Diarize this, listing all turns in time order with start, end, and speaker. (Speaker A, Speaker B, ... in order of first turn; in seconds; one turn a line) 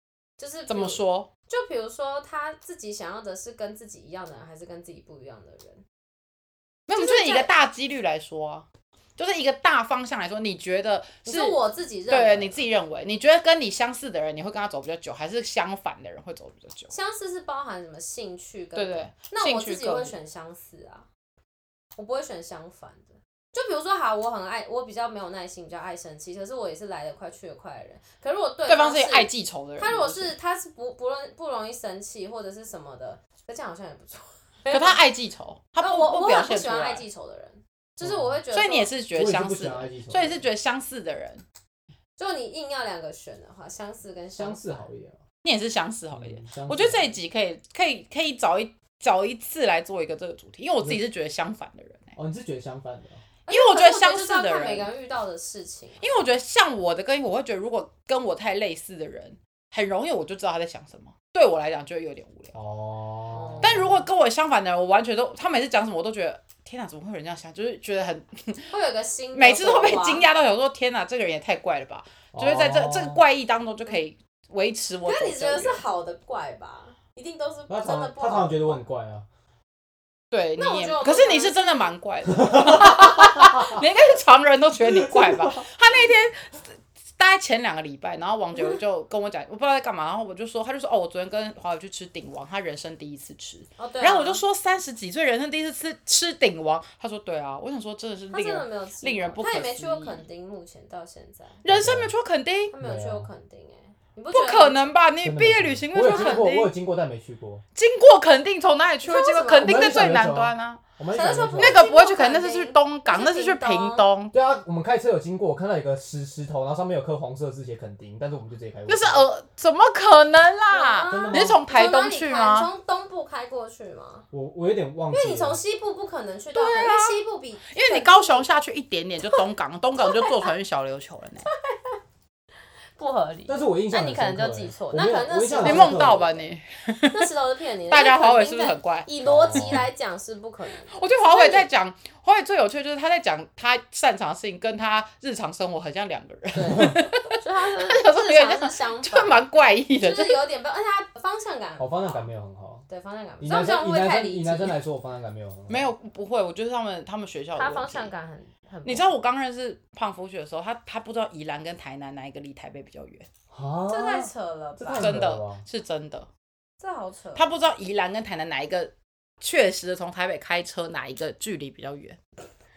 Speaker A: 0.4-5.8
Speaker B: 0.7-1.3
Speaker B: 6.9-8.7
Speaker A: 6.9-7.5
Speaker B: 9.2-16.9
Speaker A: 11.2-12.6
Speaker A: 16.9-21.1
Speaker B: 18.7-20.2
Speaker A: 22.0-35.0
Speaker B: 28.6-30.3
Speaker B: 34.7-37.0
Speaker A: 35.8-38.9
Speaker C: 38.0-38.4
Speaker B: 38.5-41.4
Speaker C: 39.1-40.4
Speaker A: 42.2-44.8
Speaker C: 44.4-45.2
Speaker B: 45.4-52.1
Speaker C: 46.1-47.1
Speaker C: 52.2-53.2
Speaker A: 53.5-56.2
Speaker B: 53.5-54.9
Speaker B: 56.0-62.5
Speaker C: 62.5-63.9
Speaker A: 63.3-63.9
Speaker B: 63.6-68.7
Speaker A: 68.7-70.3
Speaker B: 69.3-75.8
Speaker C: 72.3-73.2
Speaker A: 75.0-78.8
Speaker C: 77.7-79.2
Speaker B: 80.3-86.6
Speaker A: 80.6-81.9
Speaker C: 82.3-83.5
Speaker C: 84.9-85.6
Speaker B: 87.2-100.2
Speaker A: 93.8-94.4
Speaker A: 98.3-101.6
Speaker B: 101.6-102.7
Speaker C: 101.7-102.1
Speaker A: 102.7-104.9
Speaker C: 102.8-103.3
Speaker B: 104.3-106.7
Speaker C: 105.2-107.6
Speaker A: 106.0-106.4
Speaker B: 107.7-110.8
Speaker A: 109.0-109.9
Speaker C: 109.6-111.9
Speaker A: 111.1-114.1
Speaker B: 111.6-114.3
Speaker C: 114.3-119.2
Speaker B: 118.9-122.7
Speaker A: 120.7-124.3
Speaker C: 121.1-121.6
Speaker C: 124.3-125.6
Speaker A: 125.1-128.5
Speaker B: 126.5-131.5
Speaker A: 130.0-130.5
Speaker A: 131.4-132.0
Speaker A: 133.0-136.5
Speaker C: 133.5-136.2
Speaker B: 135.6-137.3
Speaker A: 137.1-141.7
Speaker B: 137.9-139.7
Speaker C: 139.2-139.9
Speaker B: 140.9-150.4
Speaker A: 146.5-152.3
Speaker C: 151.8-152.8
Speaker A: 152.9-154.8
Speaker C: 153.4-155.9
Speaker B: 155.7-158.1
Speaker A: 157.6-159.1
Speaker B: 158.8-163.3
Speaker C: 163.5-165.6
Speaker A: 163.9-165.2
Speaker B: 164.9-166.3
Speaker A: 166.8-167.5
Speaker B: 167.3-172.2